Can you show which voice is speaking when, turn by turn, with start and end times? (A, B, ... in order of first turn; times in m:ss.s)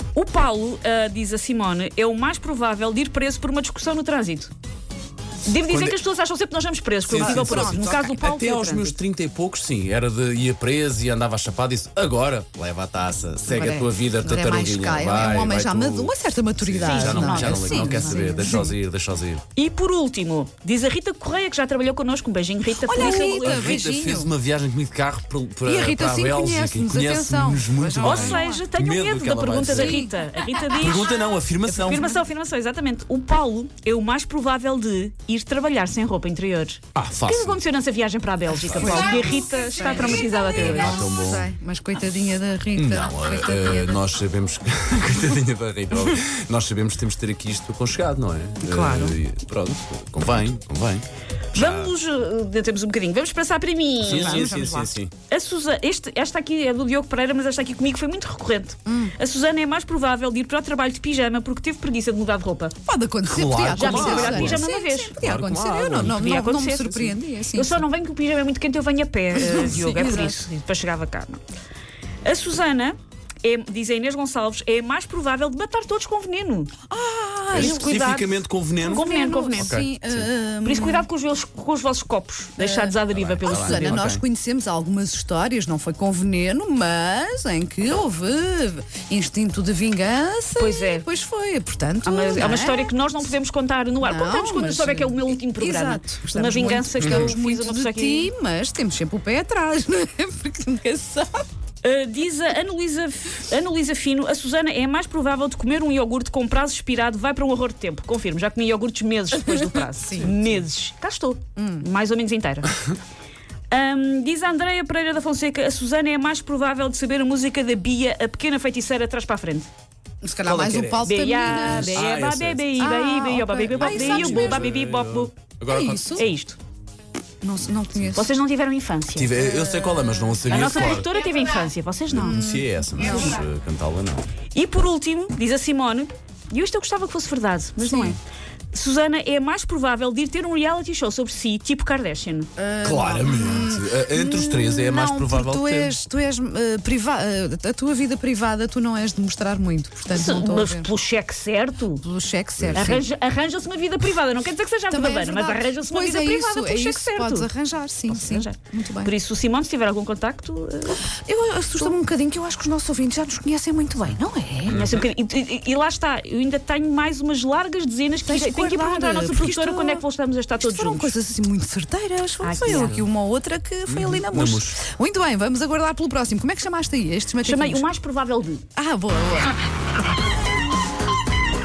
0:00.1-0:04.5 A
0:05.4-0:09.0 A
0:05.7-0:06.0 B
0:07.0-0:19.4 B
0:07.1-0:08.2 C
0:13.4-0:18.8 C
0:16.8-0:18.4 A
0:19.6-0:23.8 A
0:22.8-0:24.3 C
0:22.9-0:30.0 B
0:25.6-0:28.7 C
0:28.0-0:41.0 A
0:29.7-0:30.1 C
0:30.7-0:32.2 B
0:37.0-0:37.6 B
0:38.5-0:44.0 C
0:38.7-0:39.4 B
0:39.9-0:41.5 B
0:42.8-0:51.9 B
0:48.6-0:49.2 C
0:51.5-0:54.6 A
0:54.0-0:55.1 B
0:54.0-0:54.9 C
0:55.3-1:02.8 A
0:58.9-0:59.1 C
1:02.9-1:07.8 C
1:03.3-1:06.3 B
1:03.7-1:05.2 A
1:06.0-1:11.4 A
1:09.3-1:10.4 C
1:12.2-1:16.7 A
1:16.9-1:18.0 C
1:17.5-1:19.8 A
1:17.5-1:20.3 B
1:18.8-1:21.1 C
1:20.6-1:24.1 A
1:22.6-1:32.9 C
1:23.1-1:24.2 B
1:30.6-1:31.1 A
1:32.0-1:38.3 A
1:34.0-1:41.4 C
1:41.8-1:52.8 A
1:49.4-1:50.4 C
1:51.6-1:51.9 C
1:53.7-1:59.7 A
2:00.2-2:02.1 C
2:00.4-2:02.9 B
2:01.0-2:05.3 A
2:02.8-2:04.7 C
2:03.7-2:06.3 B
2:05.7-2:06.2 C
2:06.2-2:06.6 A
2:07.4-2:08.4 C
2:08.1-2:09.5 A
2:09.2-2:11.1 B
2:09.4-2:11.3 C
2:10.5-2:12.4 A
2:12.1-2:14.2 B
2:12.1-2:13.4 C
2:13.0-2:13.4 A
2:14.5-2:18.2 A
2:17.8-2:18.2 C
2:18.7-2:22.5 A
2:22.6-2:30.9 C
2:22.8-2:26.0 B
2:30.1-2:32.0 A
2:32.0-2:33.0 C
2:32.6-2:32.9 B
2:32.8-2:37.5 A
2:34.9-2:39.1 C
2:38.1-2:41.1 A
2:41.1-2:44.8 C
2:44.7-2:45.1 B
2:44.7-2:51.1 A
2:48.2-2:50.0 C
2:50.6-2:57.9 C
2:52.4-2:53.0 A
2:53.9-2:54.8 B
2:57.4-2:58.6 A
2:58.8-2:59.6 C